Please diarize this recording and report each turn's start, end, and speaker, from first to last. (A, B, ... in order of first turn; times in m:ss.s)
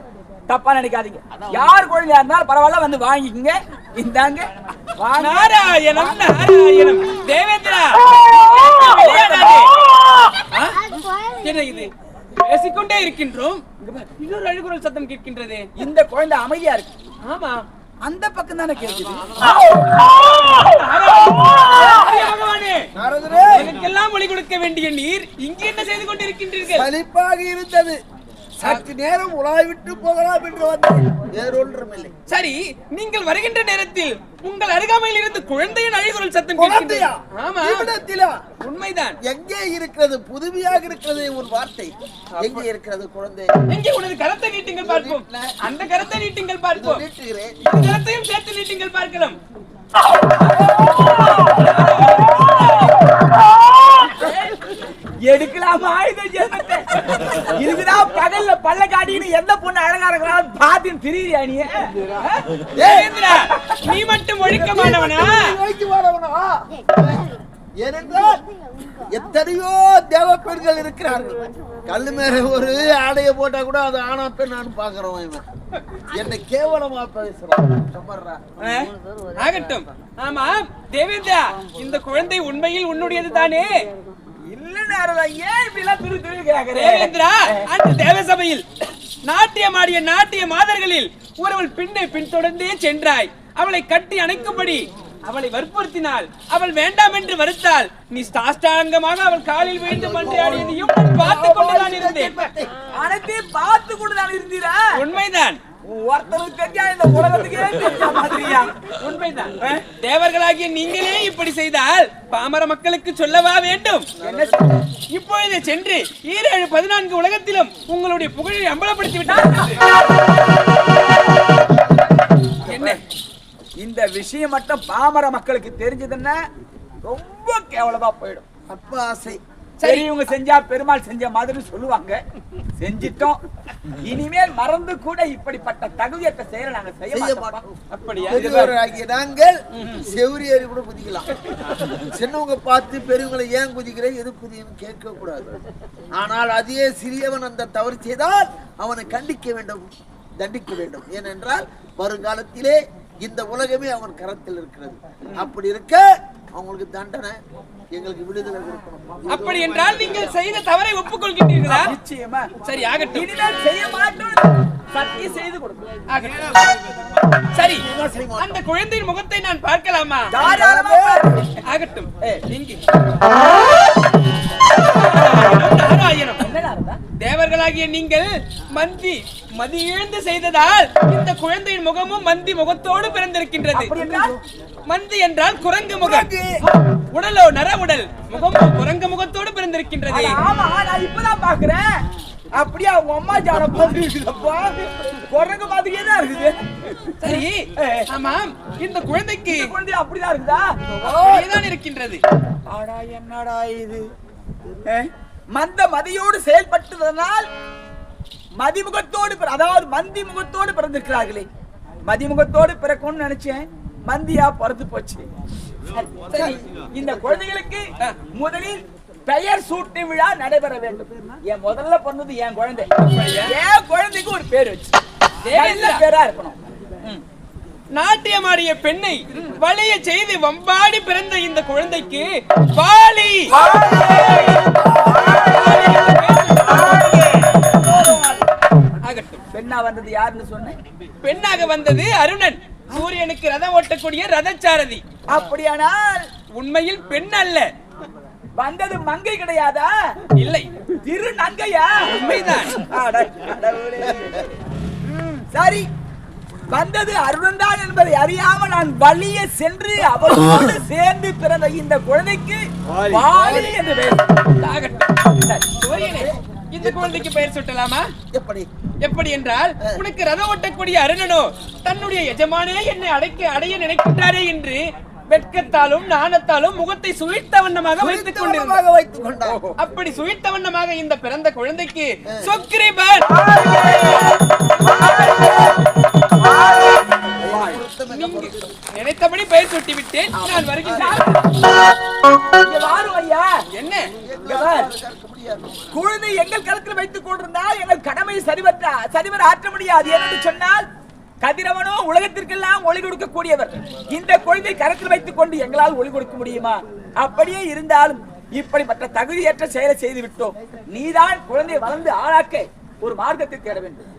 0:00.5-0:06.4 A
0:05.2-0:08.0 B
0:08.6-0:09.7 A
0:08.7-0:09.7 B
0:10.5-0:10.8 B
0:11.4-0:13.6 B
0:13.8-0:14.1 A
0:14.2-0:15.7 B
0:15.8-0:16.9 A
0:17.2-0:17.6 B
0:18.0-0:19.7 A
0:19.4-0:22.8 B
0:23.0-0:23.7 C
0:23.5-0:26.9 B
0:26.7-0:28.0 C
0:28.6-0:32.1 C
0:32.3-0:37.9 B
0:36.6-0:38.4 C
0:38.6-0:39.2 B
0:39.2-0:43.5 C
0:42.4-0:42.6 B
0:43.7-0:47.0 B
0:44.8-0:45.5 C
0:46.7-0:47.5 C
0:47.6-0:49.4 B
0:50.3-0:52.5 A
0:50.8-0:52.9 B
0:55.3-1:02.4 A
1:02.8-1:03.4 C
1:02.8-1:05.4 B
1:04.4-1:07.1 C
1:07.8-1:08.4 C
1:09.1-1:15.4 C
1:16.1-1:18.5 C
1:18.6-1:18.9 A
1:19.3-1:23.7 B
1:24.5-1:27.7 A
1:26.7-1:28.6 B
1:29.2-1:42.4 B
1:39.9-1:42.7 C
1:42.9-1:44.8 A
1:44.9-1:45.6 B
1:45.9-1:49.8 A
1:47.5-1:48.9 B
1:49.8-1:54.0 B
1:54.2-1:54.8 C
1:54.2-1:54.8 A
1:55.1-1:59.8 B
1:59.2-1:59.8 A
2:02.7-2:03.0 B
2:03.8-2:06.4 A
2:07.0-2:08.4 A
2:08.7-2:09.4 C
2:09.8-2:10.1 B
2:09.8-2:12.2 A
2:12.8-2:13.4 A
2:14.0-2:17.6 A
2:17.1-2:17.6 C
2:17.9-2:18.7 B
2:18.2-2:21.3 C
2:18.3-2:18.7 A
2:22.1-2:25.5 C
2:26.2-2:36.0 C
2:35.2-2:35.5 A
2:36.5-2:37.4 C
2:37.9-2:40.3 C
2:39.3-2:41.9 B
2:41.7-2:42.5 A
2:42.6-2:43.3 B
2:43.1-2:45.8 A
2:46.1-2:46.7 B
2:47.5-2:47.8 B
2:47.8-2:48.6 C
2:48.4-2:50.4 B
2:50.3-2:51.4 A
2:50.4-2:51.4 C
2:51.7-2:52.8 B
2:54.9-2:56.4 B
2:56.4-2:57.0 A
2:57.2-3:04.0 B
3:03.7-3:04.4 A
3:04.9-3:06.3 B
3:06.0-3:06.4 C
3:07.1-3:10.4 B
3:10.1-3:11.9 A
3:12.6-3:14.8 A
3:15.3-3:18.1 A
3:17.2-3:19.7 B
3:19.4-3:21.6 A
3:21.0-3:22.2 B
3:22.7-3:24.0 A
3:24.9-3:27.4 A
3:28.6-3:31.5 A
3:32.1-3:35.3 A
3:36.0-3:45.0 A
3:36.3-3:37.3 C
3:43.0-3:43.5 B
3:45.4-3:46.0 B
3:45.5-3:47.2 A
3:47.9-3:53.5 B
3:53.5-3:55.9 A
3:53.6-3:55.1 C
3:55.2-3:57.1 B
3:56.7-3:58.4 A
3:59.0-3:59.4 B
3:59.5-4:00.8 A
4:01.2-4:05.0 B
4:05.3-4:06.2 A
4:06.6-4:07.7 B
4:08.6-4:09.9 A
4:10.4-4:10.7 B
4:11.0-4:14.4 A
4:12.1-4:12.8 B
4:15.0-4:15.9 A
4:16.7-4:25.8 A
4:23.2-4:23.7 C
4:24.7-4:25.0 B
4:25.8-4:28.0 B
4:25.9-4:27.2 C
4:28.3-4:28.7 C
4:29.0-4:38.8 B
4:38.0-4:39.6 C
4:39.4-4:39.8 A
4:39.8-4:43.3 B
4:43.2-4:45.8 A
4:46.4-4:47.8 A
4:47.4-4:48.6 C
4:48.1-4:51.3 B
4:50.3-4:51.4 A
4:50.9-4:51.2 C
4:52.6-4:53.5 A
4:53.7-4:54.0 B
4:54.2-4:55.8 C
4:54.4-4:54.9 A
4:55.9-5:00.8 A
5:01.4-5:14.1 A